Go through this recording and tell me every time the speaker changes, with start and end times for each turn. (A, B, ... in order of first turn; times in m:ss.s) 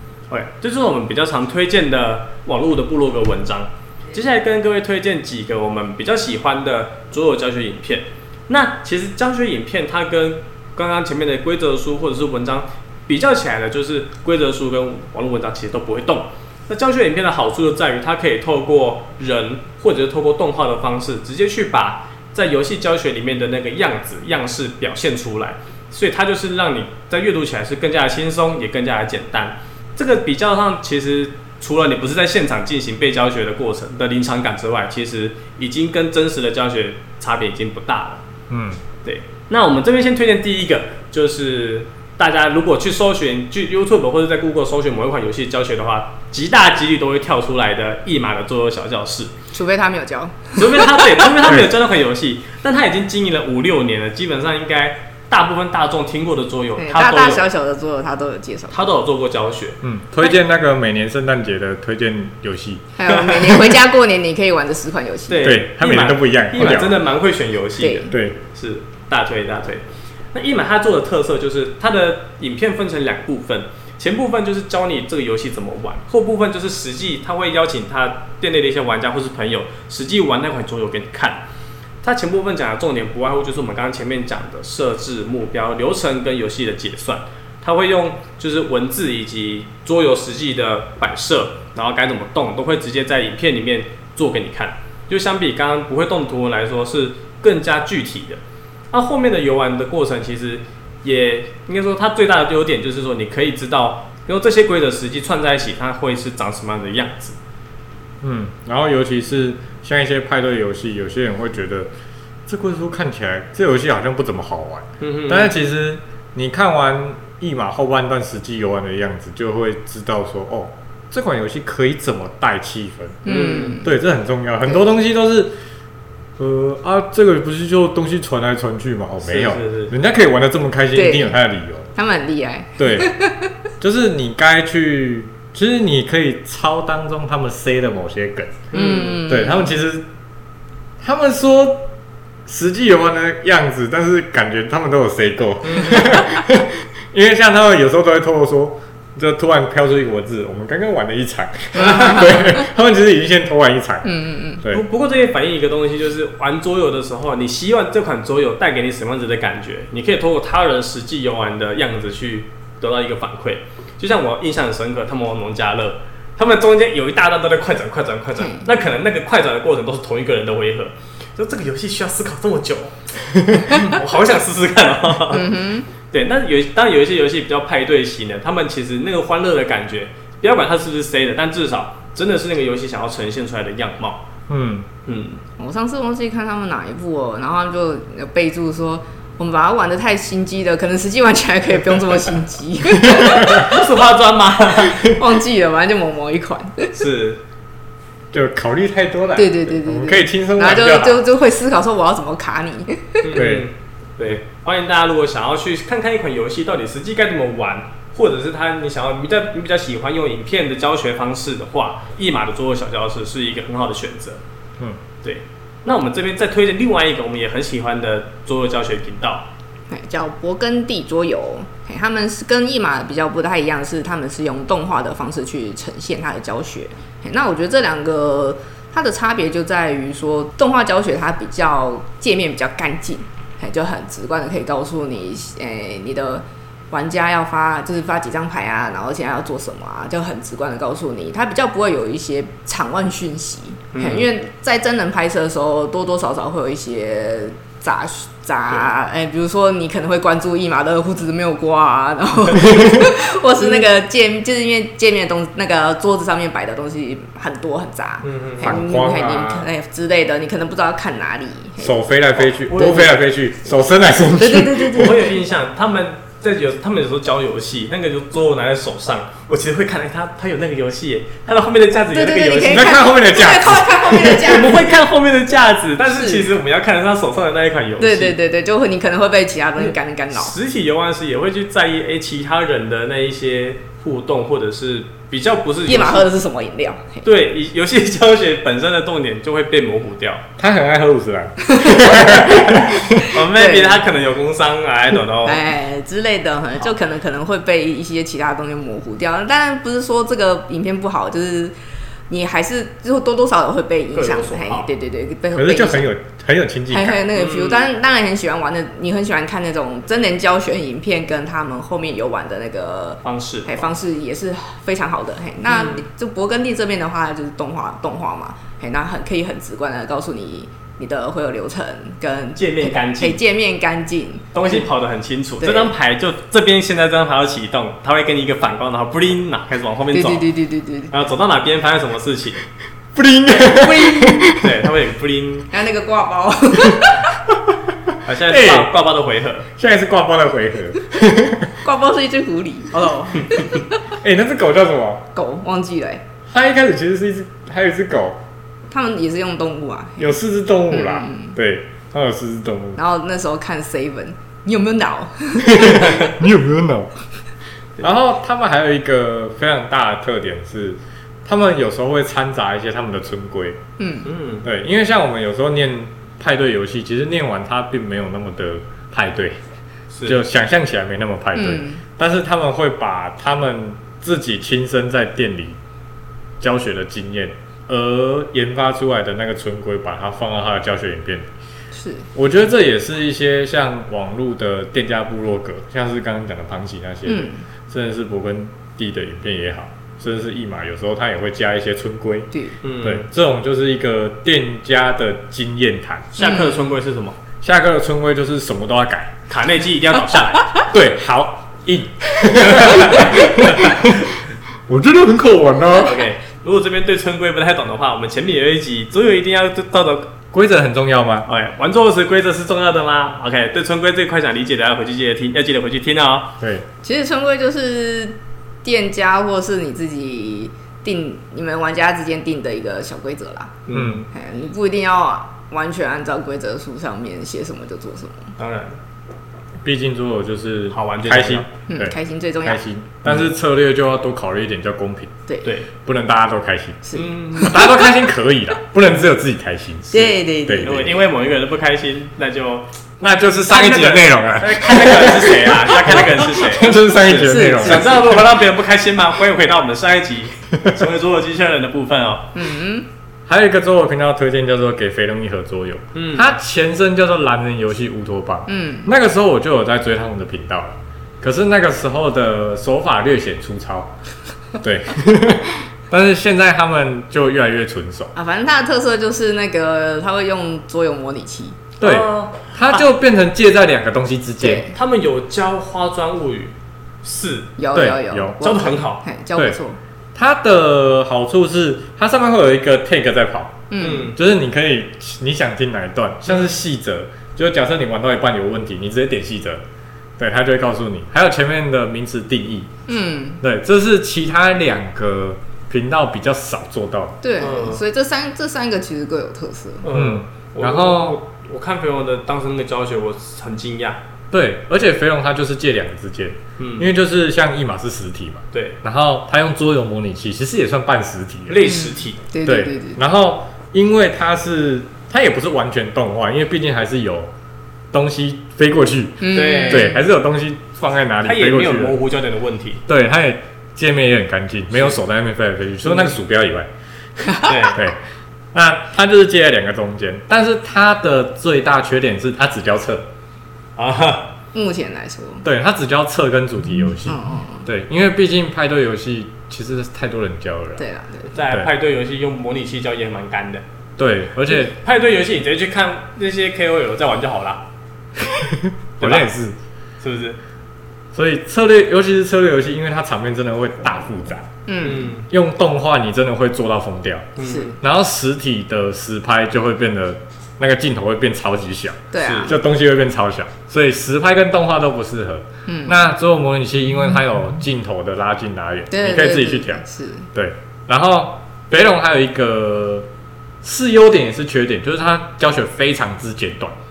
0:00.3-0:38.2 A
0:38.5-0:38.8 B
0:39.0-0:49.3 A
0:49.5-0:50.9 C
0:50.6-0:57.5 A
0:51.4-0:51.7 B
0:56.8-0:58.9 C
0:58.7-0:59.8 A
0:59.8-1:02.9 B
1:03.0-1:05.5 C
1:03.1-1:03.6 A
1:05.3-1:21.4 A
1:05.4-1:07.0 B
1:07.8-1:08.1 C
1:08.1-1:08.4 B
1:22.0-1:38.4 A
1:38.9-1:47.4 A
1:48.2-1:51.9 B
1:52.5-2:05.6 B
1:55.0-1:55.5 A
2:03.2-2:03.9 C
2:03.3-2:03.8 A
2:06.4-2:11.9 B
2:09.2-2:09.9 A
2:11.0-2:11.4 C
2:12.0-2:13.5 C
2:12.8-2:13.1 B
2:13.8-2:18.7 B
2:18.7-2:19.2 A
2:18.7-2:19.7 C
2:19.2-2:20.1 B
2:21.0-2:21.9 B
2:22.5-2:34.8 B
2:25.6-2:26.2 A
2:31.7-2:32.6 C
2:34.0-2:34.6 C
2:34.7-3:04.3 A
2:48.4-2:48.7 C
2:55.3-2:55.9 C
3:04.5-3:04.9 B
3:05.1-3:05.4 A
3:05.6-3:13.8 C
3:13.1-3:13.7 B
3:13.5-3:15.2 A
3:15.0-3:17.0 C
3:16.9-3:17.4 A
3:18.3-3:21.2 B
3:19.4-3:23.4 C
3:23.2-3:34.4 A
3:23.4-3:23.7 B
3:35.2-3:39.5 A
3:39.9-4:22.0 C
4:03.9-4:04.3 A
4:18.2-4:18.8 A
4:18.6-4:19.7 B
4:21.8-4:25.2 B
4:22.7-4:23.1 A
4:22.8-4:23.1 C
4:24.4-4:25.4 C
4:25.0-4:33.0 A
4:32.1-4:35.0 C
4:32.6-4:34.6 B
4:34.3-4:38.4 A
4:36.2-4:36.5 C
4:38.0-4:40.6 C
4:39.8-4:46.3 A
4:45.9-4:47.2 C
4:47.2-4:50.4 A
4:50.6-4:53.3 B
4:51.6-4:54.0 C
4:53.2-4:55.7 A
4:55.4-5:01.7 C
5:02.3-5:06.1 C
5:04.2-5:04.9 A
5:05.6-5:07.2 B
5:06.9-5:24.8 C
5:07.4-5:07.9 A
5:13.2-5:13.7 A
5:15.7-5:16.0 A
5:22.6-5:23.4 A
5:24.5-5:30.5 A
5:25.6-5:25.9 C
5:30.1-5:31.1 C
5:31.1-5:32.6 A
5:33.2-5:34.9 B
5:33.6-5:34.5 C
5:34.6-5:35.7 A
5:35.7-5:37.3 C
5:38.2-5:39.7 A
5:38.4-5:38.9 B
5:39.8-5:41.8 B
5:41.8-5:43.9 C
5:43.0-5:43.8 A
5:44.2-5:45.3 B
5:45.4-5:46.2 C
5:46.5-5:48.4 B
5:48.9-5:50.4 C
5:50.2-5:53.0 B
5:50.9-5:51.6 C
5:53.0-5:56.2 C
5:55.6-5:57.1 B
5:58.0-6:03.8 B
6:04.0-6:04.3 C
6:04.3-6:04.7 A
6:04.6-6:09.6 B
6:10.1-6:10.4 A
6:10.2-6:15.8 B
6:11.6-6:12.0 C
6:16.6-6:21.5 B
6:22.0-6:22.3 C
6:22.4-6:32.5 B
6:27.3-6:27.6 C
6:32.8-6:33.3 A
6:33.0-6:36.3 B
6:36.3-6:37.4 A
6:36.4-6:36.9 C
6:37.6-6:39.4 B
6:39.5-6:40.7 A
6:40.9-6:44.4 B
6:42.6-6:44.2 A
6:44.9-6:46.2 B
6:46.0-6:50.3 A
6:50.5-6:51.5 B
6:51.5-6:56.6 A
6:56.6-6:56.9 B
6:57.0-7:03.8 C
7:03.9-7:04.3 A
7:03.9-7:04.3 B
7:04.3-7:08.5 C
7:08.6-7:09.0 A
7:09.8-7:15.3 B
7:10.9-7:11.7 A
7:11.9-7:12.8 C
7:15.6-7:15.9 A
7:16.0-7:21.2 B
7:17.1-7:17.9 C
7:17.2-7:17.9 A
7:20.1-7:21.0 C
7:20.8-7:22.9 A
7:23.2-7:28.5 B
7:23.7-7:32.5 A
7:27.4-7:28.2 C
7:32.6-7:33.1 C
7:33.5-7:44.1 B
7:36.2-7:36.5 A
7:38.7-7:39.1 C
7:44.8-7:48.3 B
7:48.4-7:51.8 C
7:52.0-7:53.0 A
7:52.0-7:54.9 B
7:54.6-7:55.0 C
7:54.9-7:57.7 A
7:57.8-8:00.0 C
7:57.9-7:58.7 B
7:58.6-7:59.2 A
8:00.4-8:09.8 B
8:03.9-8:04.4 C
8:04.0-8:04.4 A
8:10.4-8:12.9 B
8:13.1-8:13.6 C
8:13.6-8:17.4 B
8:17.4-8:20.1 C
8:17.6-8:18.0 A
8:20.0-8:24.2 A
8:20.1-8:21.4 B
8:24.5-8:31.9 B
8:26.8-8:27.1 A
8:28.7-8:29.0 A
8:31.7-8:32.4 A
8:31.8-8:33.2 C
8:32.6-8:37.5 B
8:38.1-8:42.2 B
8:39.4-8:40.2 C
8:39.5-8:40.1 A
8:41.4-8:43.0 A
8:43.1-8:46.9 B
8:46.0-8:46.3 A
8:47.5-8:47.7 C
8:47.6-8:48.0 A
8:47.9-8:48.2 B
8:48.7-8:53.3 B
8:54.0-8:54.5 A
8:54.7-8:55.6 C
8:55.6-9:01.0 B
8:57.3-8:57.9 C
9:01.0-9:01.6 C
9:01.5-9:03.8 A
9:01.6-9:01.9 B
9:04.2-9:05.0 B
9:04.9-9:07.9 A
9:08.4-9:09.8 B
9:09.2-9:09.5 A
9:10.2-9:10.6 A
9:11.3-9:14.7 B
9:14.9-9:15.3 C
9:15.0-9:15.5 A
9:15.5-9:33.3 B
9:17.6-9:18.0 A
9:17.6-9:18.0 C
9:22.3-9:22.8 C
9:22.4-9:22.8 A
9:25.9-9:26.2 C
9:29.1-9:30.5 C
9:33.8-9:37.0 B